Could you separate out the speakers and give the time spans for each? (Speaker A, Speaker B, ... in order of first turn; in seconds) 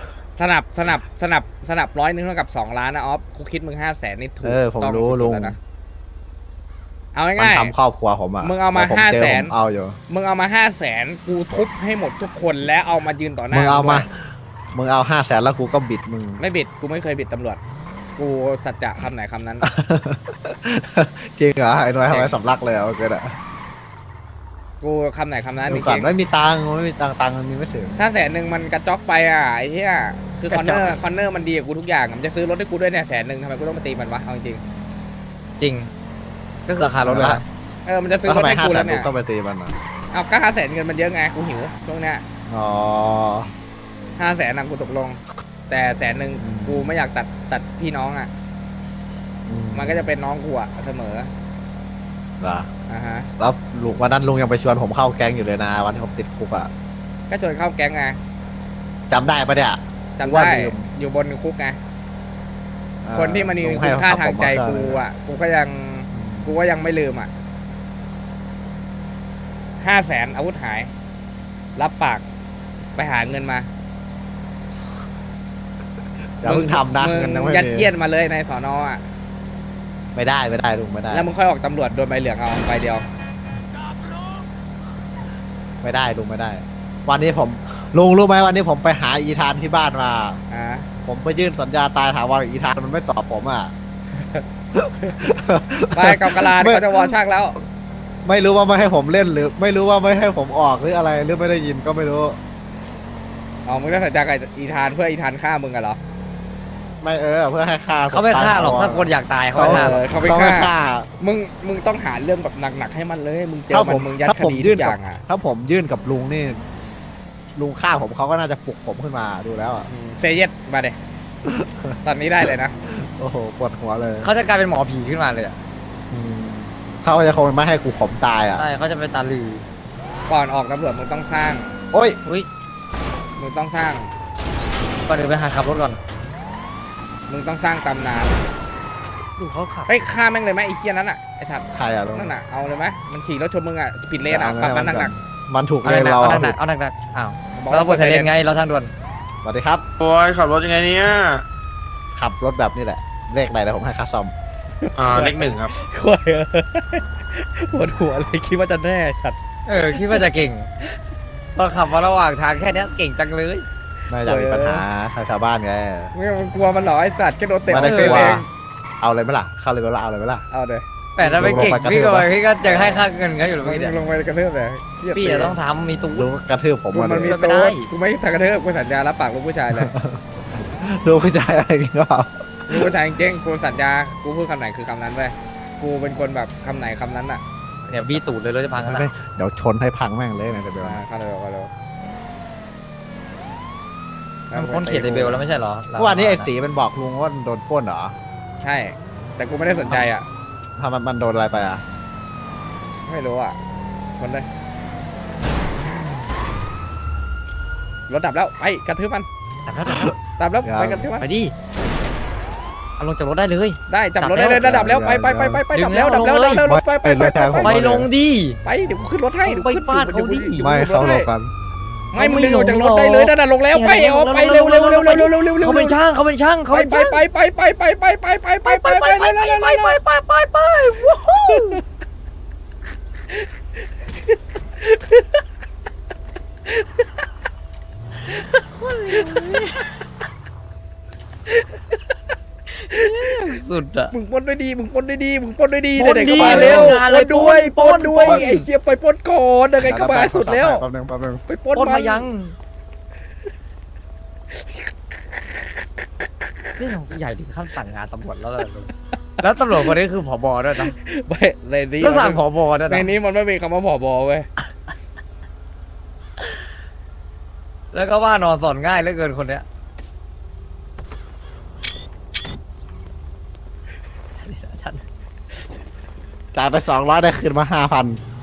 Speaker A: 0.4-5.6, 7.1-7.7, 8.4-9.5, 10.1-14.1, 16.4-17.6, 18.2-19.7, 22.1-22.4, 24.8-26.1, 28.0-34.6, 37.9-39.1, 40.1-42.2, 44.2-48.3, 49.7-51.3, 52.9-53.3, 57.3-58.2, 60.2-61.8, 63.1-67.3, 69.8-70.9, 71.8-72.2, 73.0-73.7, 76.4-79.0, 81.1-83.0, 90.5-90.9, 94.2-94.4, 95.9-97.6, 103.7-106.0, 109.6-115.2, 119.9-121.0, 122.0-122.7, 130.3-131.8, 133.4-134.1, 137.3-138.4, 139.9-145.1, 147.6-148.3, 154.8-159.4, 160.0-160.3, 164.2-164.9, 166.1-168.5, 170.5-170.8, 172.6-173.1, 173.6-175.6, 176.9-179.9, 182.7-187.4, 190.8-191.7, 194.5-195.4, 198.6-200.3, 203.1-203.6, 204.2-204.5, 208.1-209.3, 210.4-211.3, 213.9-217.9, 218.6-221.3, 222.1-226.0, 226.7-230.0, 234.8-235.4, 241.5-242.0, 243.1-243.5, 244.1-250.8, 251.5-252.3, 254.6-254.9, 260.9-264.5
Speaker B: 4.4-5.6, 7.4-10.0, 13.5-16.4, 19.6-23.4, 25.7-28.0, 36.8-37.4, 38.3-39.8, 42.5-43.5, 46.4-47.0, 49.5-50.1, 52.4-52.7, 53.4-56.7, 59.1-60.9, 63.0-65.0, 66.1-66.6, 76.4-77.9, 80.2-81.3, 85.8-90.4, 91.0-93.7, 94.7-97.1, 98.2-102.4, 107.0-111.1, 113.7-116.6, 117.5-119.9, 121.4-122.0, 122.8-124.3, 126.1-128.6, 131.9-132.2, 141.7-142.3, 144.3-146.6, 149.4-149.8, 152.2-154.3, 164.1-166.1, 167.7-168.5, 169.0-170.4, 171.2-172.3, 176.1-177.3, 179.7-182.9, 188.8-191.0, 196.0-198.2, 200.8-201.8, 209.9-211.1, 214.5-215.6, 216.6-218.1, 220.6-221.5, 246.4-247.0, 249.8-251.4, 276.5-278.2
Speaker C: 30.5-31.0, 35.6-35.9, 36.7-37.5, 108.1-110.0, 124.2-125.6, 128.6-129.7, 135.1-136.0, 139.4-140.0, 145.8-148.9, 159.7-160.7, 161.6-163.7, 167.8-168.4, 171.2-174.0, 175.1-176.3, 177.2-177.9, 187.9-189.1, 194.5-196.5, 209.7-210.2, 211.2-211.5, 213.0-214.7, 215.7-216.7, 217.6-218.6, 219.4-220.7, 222.2-227.2, 228.7-231.8, 238.3-239.9, 242.8-244.1, 246.0-248.7, 251.7-252.6, 256.8-260.9, 262.0-263.1, 267.9-269.6, 274.4-275.0
Speaker D: 150.0-151.4, 155.0-155.7